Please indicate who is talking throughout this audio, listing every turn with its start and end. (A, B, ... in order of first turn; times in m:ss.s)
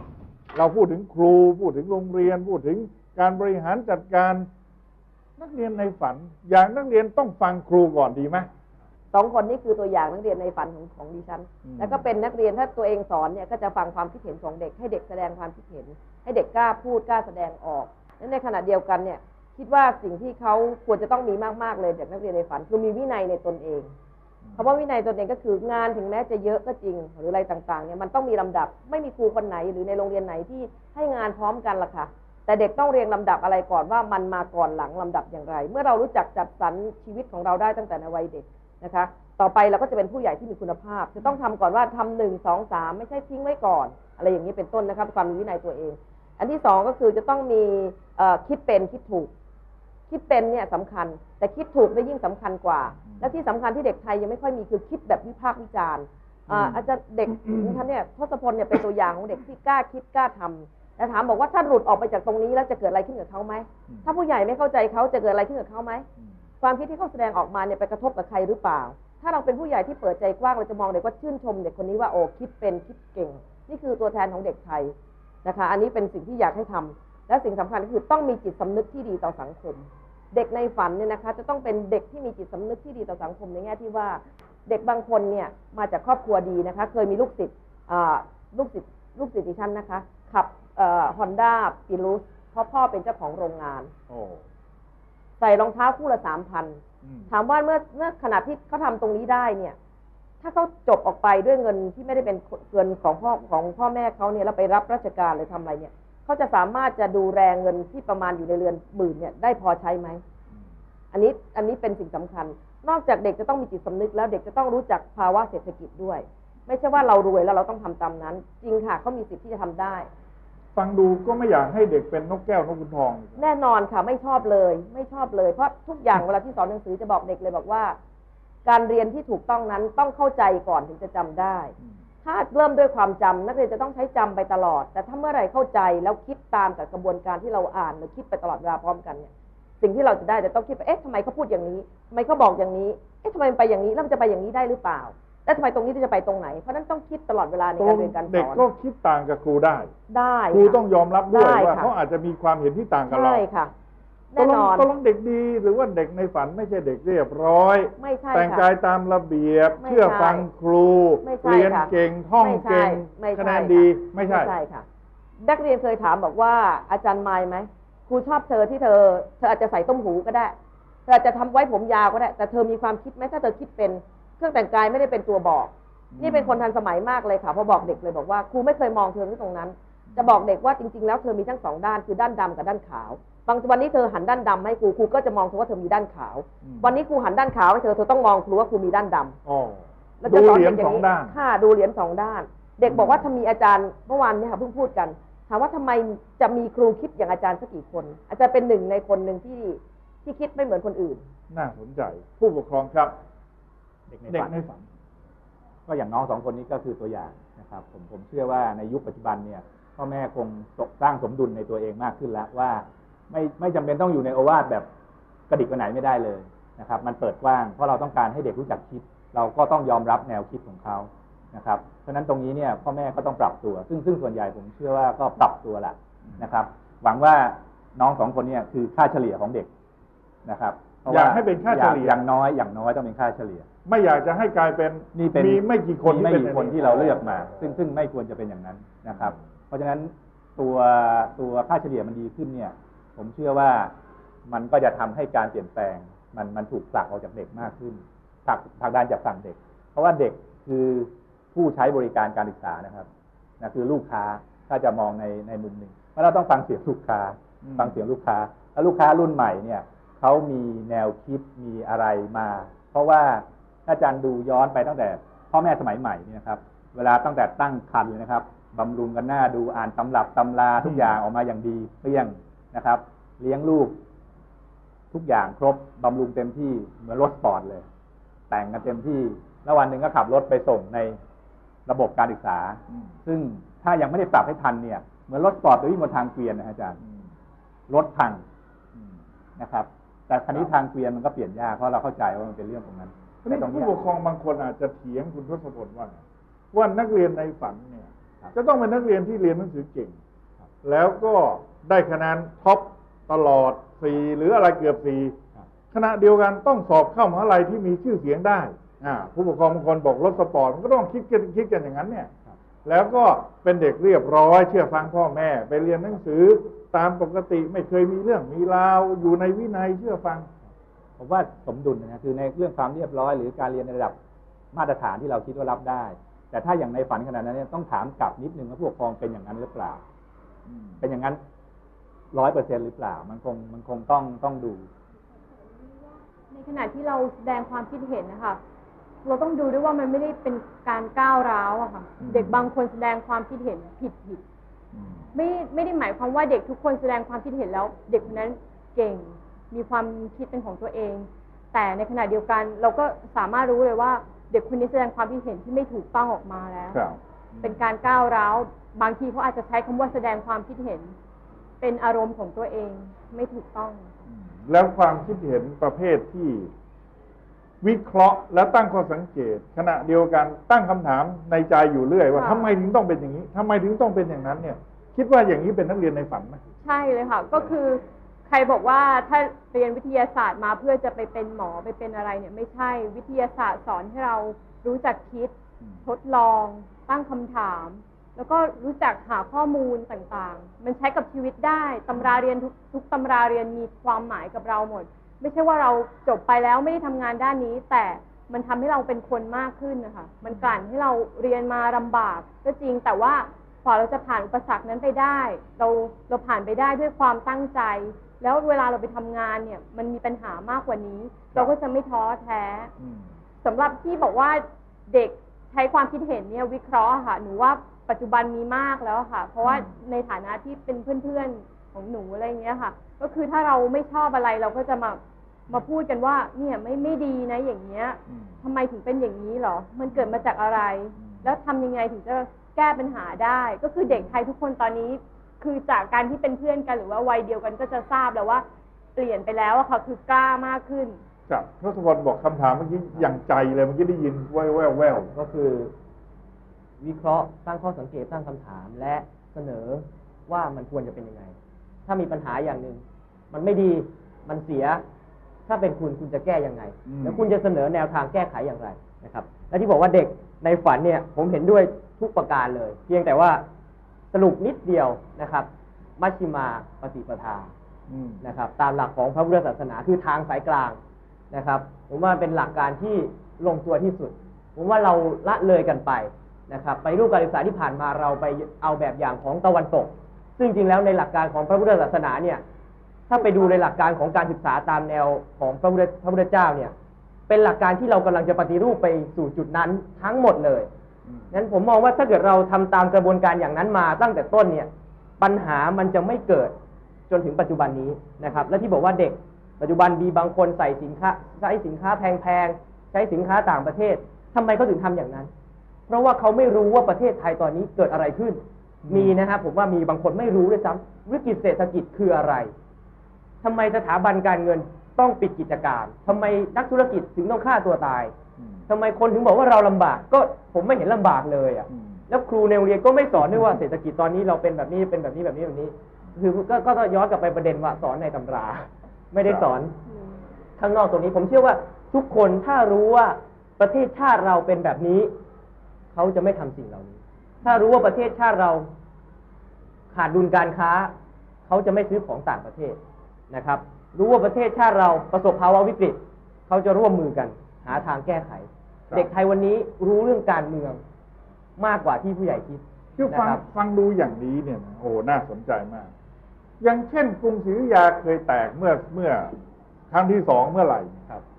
0:00.5-0:04.5 A
0:05.4-0:08.5 A
0:09.1-0:23.9 B
0:11.6-0:12.0 A
0:24.4-0:24.7 A
0:24.6-0:49.3 B
0:50.1-1:06.1 B
1:06.6-1:33.9 B
1:34.1-1:34.4 A
1:35.4-1:39.8 B
1:37.0-1:37.3 A
1:40.4-1:50.2 B
1:51.1-2:00.1 B
2:00.8-2:03.4 A
2:03.4-2:08.0 B
2:08.6-2:19.3 B
2:19.8-2:28.6 B
2:27.8-2:29.9 A
2:30.1-2:31.9 B
2:30.5-2:33.4 A
2:33.1-2:33.7 B
2:34.3-2:34.9 B
2:34.4-2:44.5 A
2:38.0-2:38.7 B
2:39.8-2:40.5 B
2:41.2-2:44.8 B
2:45.4-2:50.5 B
2:51.1-3:09.4 B
2:56.1-2:56.6 A
3:06.6-3:06.9 A
3:09.4-3:11.4 A
3:10.2-3:21.2 B
3:12.8-3:13.2 A
3:21.5-3:23.1 A
3:24.1-3:24.5 C
3:24.3-3:24.8 A
3:25.9-3:34.8 C
3:35.5-3:49.7 C
3:50.4-3:53.7 C
3:51.1-3:52.2 A
3:53.8-3:57.6 A
3:55.1-4:03.9 C
4:04.5-4:13.1 C
4:13.6-4:34.0 C
4:17.6-4:18.0 A
4:35.1-4:37.9 C
4:38.5-4:41.2 C
4:41.9-4:47.0 C
4:47.9-4:48.4 C
4:49.6-4:54.0 C
4:53.4-4:56.2 A
4:56.7-5:00.2 A
5:00.8-5:05.4 A
5:05.9-5:12.3 A
5:12.8-5:20.5 A
5:21.2-5:24.2 C
5:24.7-5:30.0 C
5:30.7-5:31.0 A
5:31.0-5:31.4 C
5:32.3-5:34.9 C
5:35.9-5:38.6 D
5:39.2-5:44.4 D
5:42.2-5:42.7 A
5:44.9-5:45.2 A
5:45.3-5:57.0 D
5:56.9-5:57.8 A
5:57.6-6:01.1 D
6:01.8-6:04.0 D
6:04.3-6:06.7 A
6:07.8-6:16.6 A
6:12.3-6:12.7 D
6:16.8-6:25.5 D
6:26.0-6:52.9 D
6:40.4-6:40.8 A
6:53.0-6:53.3 A
6:53.6-7:18.6 D
6:59.6-6:59.9 A
7:08.3-7:08.6 A
7:10.1-7:10.4 A
7:11.2-7:11.6 A
7:14.1-7:14.3 A
7:19.2-7:21.2 D
7:21.5-7:25.3 A
7:25.3-7:25.9 E
7:27.0-7:31.6 E
7:32.1-7:35.0 E
7:35.7-7:43.6 E
7:37.1-7:37.5 A
7:44.3-7:45.7 E
7:46.2-7:47.7 E
7:48.1-7:48.4 A
7:48.4-7:51.0 E
7:51.5-8:02.6 E
8:03.3-8:06.9 E
8:07.5-8:10.9 E
8:11.5-8:16.8 E
8:17.3-8:25.5 E
8:26.1-8:32.7 E
8:33.6-8:38.3 E
8:38.9-8:50.0 E
8:41.9-8:42.2 A
8:50.8-8:55.3 E
8:56.1-8:58.9 E
9:00.1-9:01.1 E
9:01.7-9:03.0 E
9:03.5-9:11.0 E
9:11.8-9:13.6 E
9:13.2-9:16.1 A
9:16.8-9:19.5 A
9:20.1-9:21.2 A